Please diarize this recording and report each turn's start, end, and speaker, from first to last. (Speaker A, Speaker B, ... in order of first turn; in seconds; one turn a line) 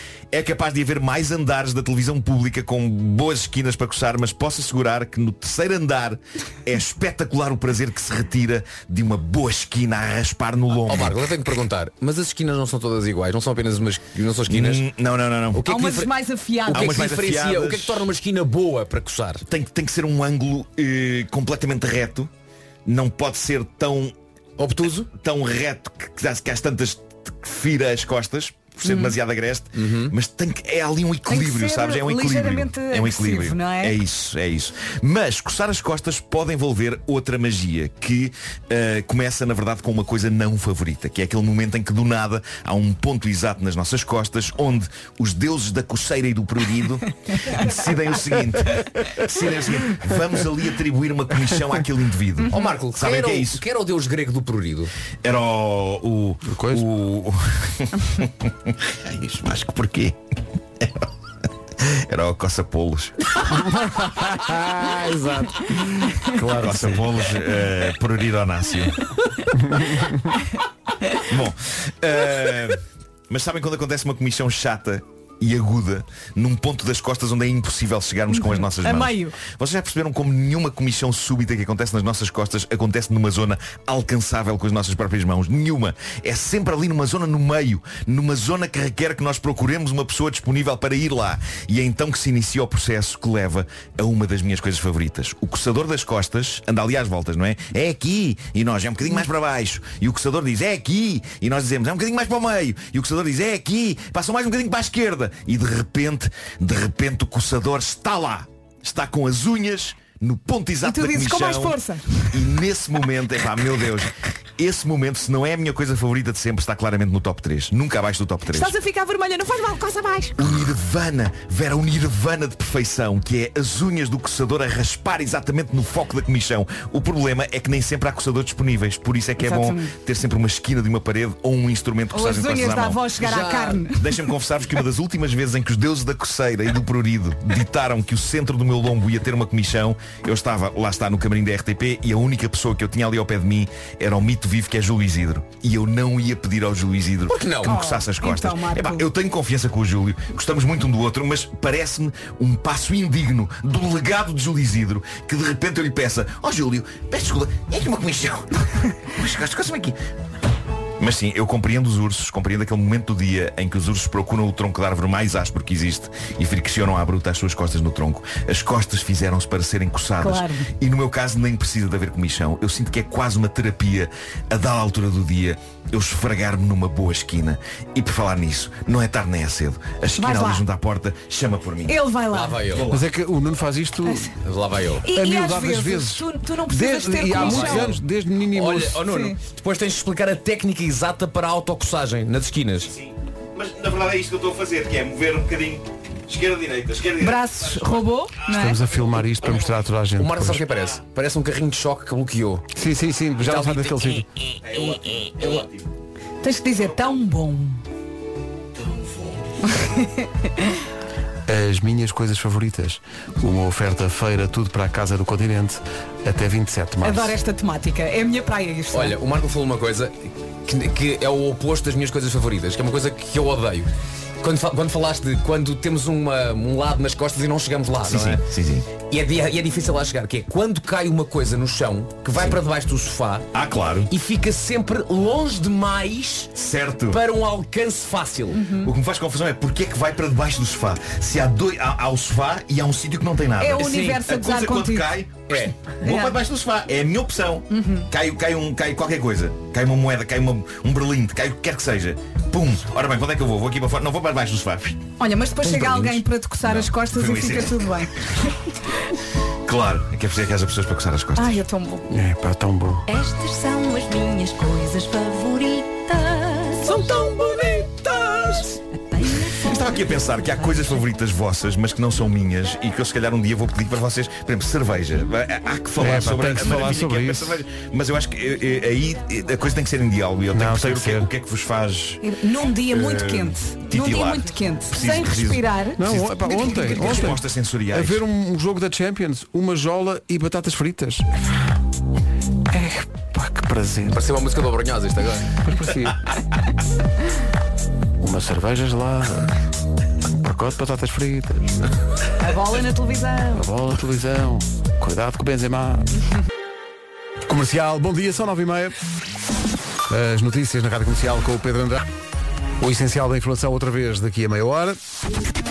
Speaker A: 0.3-11.2
Speaker B: 10.8-14.9
Speaker A: 14.5-15.7
Speaker B: 15.5-16.1
Speaker C: 15.7-17.1
Speaker B: 16.6-19.4
Speaker A: 16.7-18.1
Speaker A: 19.5-22.3
Speaker A: 22.9-24.1
Speaker B: 24.6-25.1
Speaker A: 25.1-53.6
Speaker C: 28.9-29.2
Speaker B: 29.8-30.1
Speaker C: 31.3-34.0
Speaker B: 52.5-54.9
Speaker A: 55.2-60.2
Speaker D: 56.4-56.9
Speaker A: 60.8-61.1
Speaker A: 61.8-63.3
Speaker D: 63.5-67.1
Speaker A: 66.6-69.1
Speaker D: 69.6-70.3
Speaker A: 71.3-111.8
Speaker C: 78.3-79.4
Speaker C: 110.8-112.5
Speaker A: 112.3-118.8
Speaker C: 118.5-120.5
Speaker A: 120.4-133.2
Speaker C: 129.4-129.9
Speaker C: 132.1-134.3
Speaker B: 133.2-133.8
Speaker A: 133.9-158.6
Speaker B: 147.3-147.8
Speaker C: 147.6-149.1
Speaker A: 159.1-160.0
Speaker A: 161.0-182.0
Speaker C: 170.2-170.7
Speaker C: 180.1-180.6
Speaker C: 181.9-182.7
Speaker B: 182.3-182.9
Speaker A: 182.6-183.1
Speaker D: 182.9-184.3
Speaker C: 184.1-184.3
Speaker B: 184.4-185.1
Speaker C: 185.0-188.0
Speaker D: 185.1-189.0
Speaker B: 187.3-187.9
Speaker B: 188.5-192.9
Speaker C: 189.1-189.4
Speaker A: 192.8-198.0
Speaker C: 197.2-198.8
Speaker D: 198.5-200.6
Speaker B: 200.2-202.7
Speaker D: 202.8-204.3
Speaker B: 203.4-204.2
Speaker A: 204.6-205.9
Speaker B: 204.8-205.6
Speaker C: 206.4-207.8
Speaker C: 209.7-210.5
Speaker D: 211.5-217.4
Speaker C: 217.0-219.2
Speaker B: 218.9-223.9
Speaker B: 224.4-233.5
Speaker A: 228.0-228.9
Speaker A: 233.5-234.1
Speaker B: 234.1-236.6
Speaker A: 236.6-237.2
Speaker B: 237.1-238.6
Speaker C: 238.5-238.9
Speaker A: 238.8-255.0
Speaker C: 243.6-245.2
Speaker B: 243.8-244.2
Speaker B: 245.5-245.8
Speaker C: 246.0-246.4
Speaker C: 247.7-248.1
Speaker C: 255.2-258.3
Speaker A: 256.6-257.9
Speaker A: 259.7-261.6
Speaker C: 261.4-262.1
Speaker D: 262.1-263.1
Speaker E: 263.1-267.2
Speaker B: 266.9-268.7
Speaker E: 269.1-270.9
Speaker A: 269.5-282.2
Speaker D: 276.0-277.6
Speaker D: 280.5-281.3
Speaker C: 282.2-287.3
Speaker A: 282.8-288.2
Speaker D: 286.0-291.3
Speaker D: 292.7-294.2
Speaker B: 294.1-295.6
Speaker D: 295.6-296.3
Speaker D: 298.2-299.5
Speaker D: 300.3-301.8
Speaker C: 302.4-303.6
Speaker D: 303.5-306.1
Speaker D: 307.5-309.0
Speaker D: 310.1-312.1
Speaker D: 312.8-315.0